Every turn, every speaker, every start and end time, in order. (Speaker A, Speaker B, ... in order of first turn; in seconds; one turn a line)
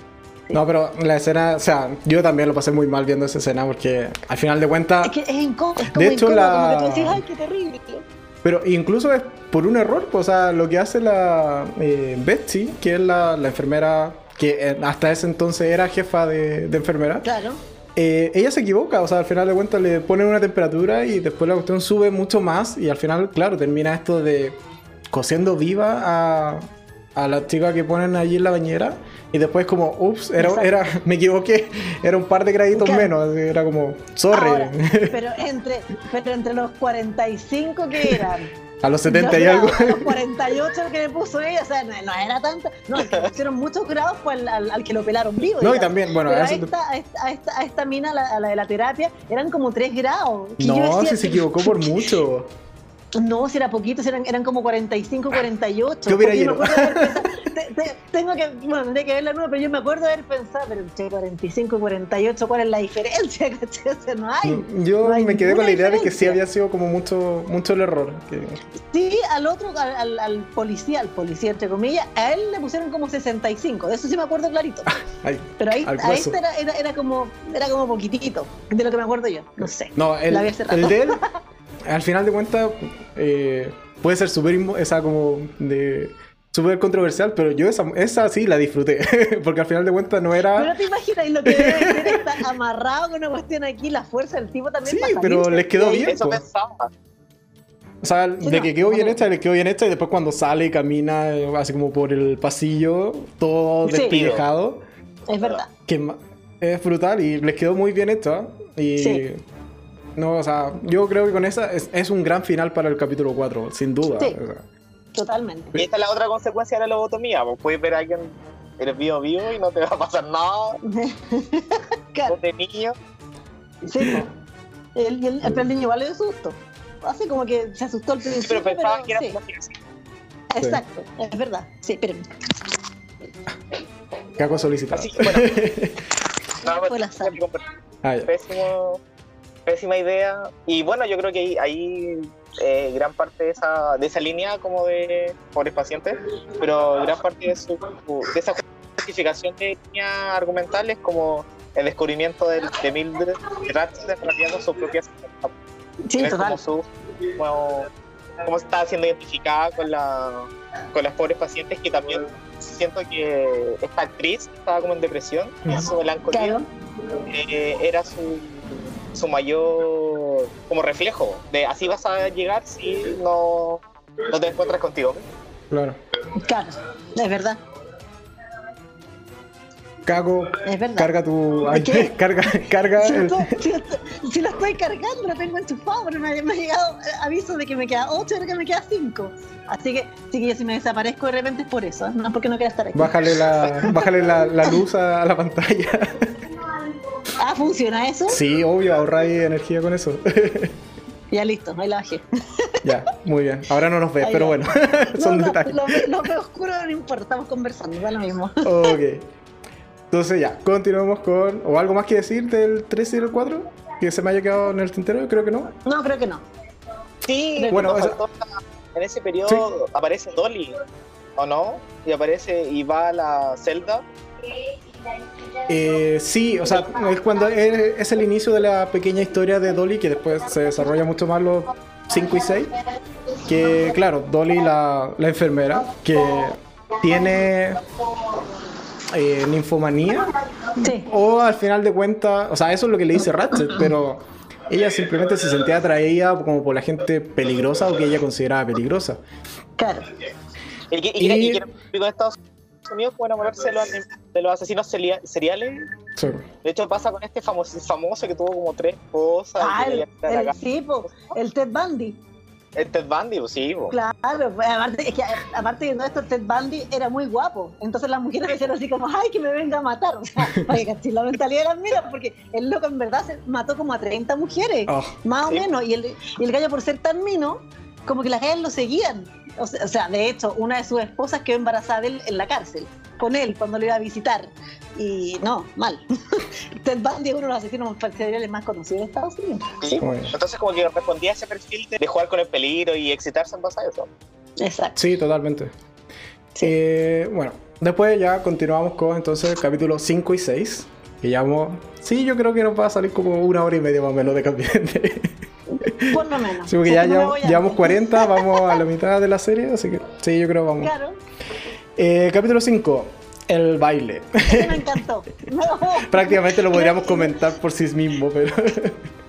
Speaker A: 0.5-5.2
Speaker B: 5.0-8.1
Speaker A: 5.8-7.2
Speaker A: 8.4-17.3
Speaker B: 17.2-17.6
Speaker A: 18.0-24.6
Speaker A: 25.1-35.2
Speaker B: 30.4-30.7
Speaker B: 32.7-33.1
Speaker B: 34.3-38.5
Speaker A: 38.0-38.2
Speaker A: 38.8-40.2
Speaker B: 39.1-51.9
Speaker A: 45.6-46.7
Speaker A: 50.6-52.5
Speaker B: 53.1-66.4
Speaker A: 56.1-57.3
Speaker A: 64.4-68.6
Speaker B: 68.9-74.9
Speaker A: 74.9-76.4
Speaker B: 75.6-81.3
Speaker A: 80.0-81.2
Speaker A: 81.9-90.7
Speaker B: 90.5-96.1
Speaker A: 91.5-92.3
Speaker A: 94.9-96.4
Speaker C: 96.0-96.9
Speaker A: 98.0-104.8
Speaker B: 98.4-99.2
Speaker B: 103.8-104.2
Speaker C: 103.9-104.4
Speaker B: 105.3-105.7
Speaker A: 105.9-109.4
Speaker B: 109.0-109.2
Speaker A: 110.2-114.6
Speaker B: 115.2-115.8
Speaker C: 115.8-120.8
Speaker B: 120.8-122.4
Speaker C: 122.3-123.0
Speaker B: 123.8-124.3
Speaker A: 124.0-124.2
Speaker B: 125.0-129.4
Speaker C: 128.3-129.8
Speaker B: 130.5-132.2
Speaker A: 134.4-136.0
Speaker C: 134.9-135.6
Speaker B: 136.6-137.4
Speaker C: 136.6-137.6
Speaker A: 138.0-138.3
Speaker C: 138.3-139.0
Speaker C: 139.7-155.5
Speaker B: 156.1-156.6
Speaker C: 156.2-157.9
Speaker C: 158.4-166.6
Speaker B: 166.3-166.7
Speaker C: 167.2-175.3
Speaker A: 175.7-176.0
Speaker B: 176.3-177.6
Speaker A: 180.1-183.5
Speaker B: 180.7-181.1
Speaker B: 181.7-182.1
Speaker B: 183.0-194.8
Speaker A: 192.9-196.5
Speaker B: 197.3-198.4
Speaker A: 198.3-200.8
Speaker B: 201.3-202.9
Speaker A: 202.8-206.1
Speaker B: 204.2-204.6
Speaker B: 205.2-208.9
Speaker A: 208.6-209.3
Speaker A: 210.1-215.7
Speaker B: 215.8-216.5
Speaker C: 217.3-220.8
Speaker B: 217.6-218.1
Speaker A: 217.7-218.2
Speaker C: 221.4-224.1
Speaker A: 225.7-232.7
Speaker A: 233.5-237.8
Speaker A: 239.1-249.2
Speaker B: 240.6-241.1
Speaker B: 249.8-250.2
Speaker C: 250.9-255.9
Speaker A: 251.2-251.6
Speaker A: 256.2-256.4
Speaker C: 256.6-260.6
Speaker B: 259.6-262.2
Speaker C: 262.8-263.9
Speaker B: 263.9-290.1
Speaker A: 274.9-275.2
Speaker C: 289.8-294.1
Speaker A: 290.0-290.3
Speaker B: 294.6-295.0
Speaker A: 295.0-295.7
Speaker A: 296.6-310.9
Speaker B: 305.7-308.8
Speaker B: 310.8-311.2
Speaker A: 312.0-315.0
Speaker B: 314.4-317.4
Speaker A: 316.0-319.1